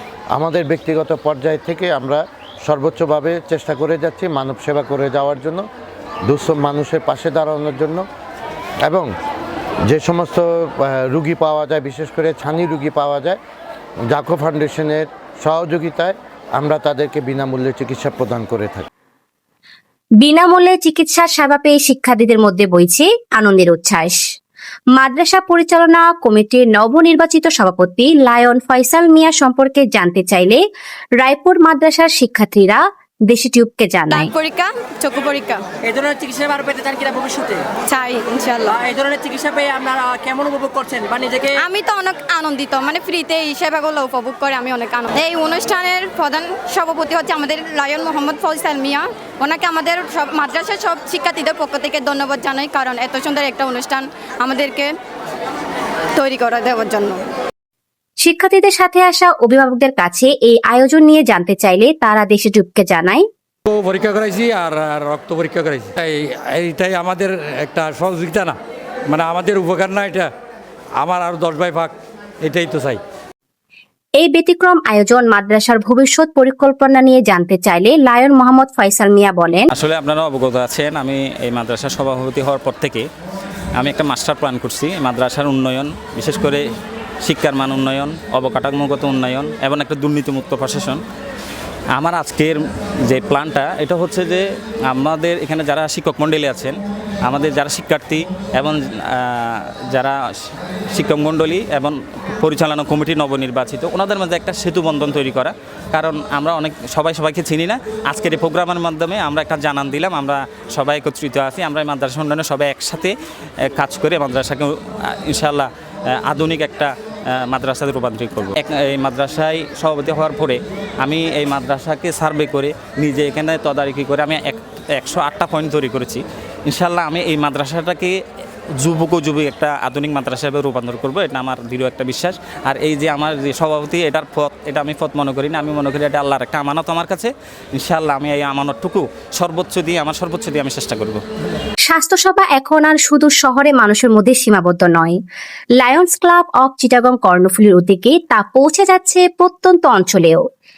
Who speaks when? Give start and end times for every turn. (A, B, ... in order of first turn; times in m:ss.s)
0:00.3-0:05.6 A
0:06.3-0:08.0 A
0:08.8-0:09.1 A
0:09.9-0:13.4 A
0:14.1-0:18.9 A
0:20.2-0:24.2 B
0:25.0-0:30.6 B
0:31.2-0:34.3 B
0:34.1-0:35.6 C
0:36.0-0:37.4 D
0:37.8-0:38.8 C
0:38.8-0:41.4 D
0:41.5-0:54.9 C
0:56.2-0:57.2 C
0:58.2-1:03.2 B
1:03.7-1:08.6 E
1:09.1-1:10.3 E
1:11.0-1:13.0 E
1:14.2-1:19.7 B
1:19.7-1:23.0 F
1:23.8-1:26.6 F
1:27.2-1:31.0 F
1:31.9-1:40.2 F
1:40.9-1:53.1 F
1:53.7-1:55.7 F
1:56.2-1:56.9 F
1:57.5-2:08.2 F
2:08.8-2:21.2 F
2:21.9-2:25.2 B
2:25.8-2:30.4 B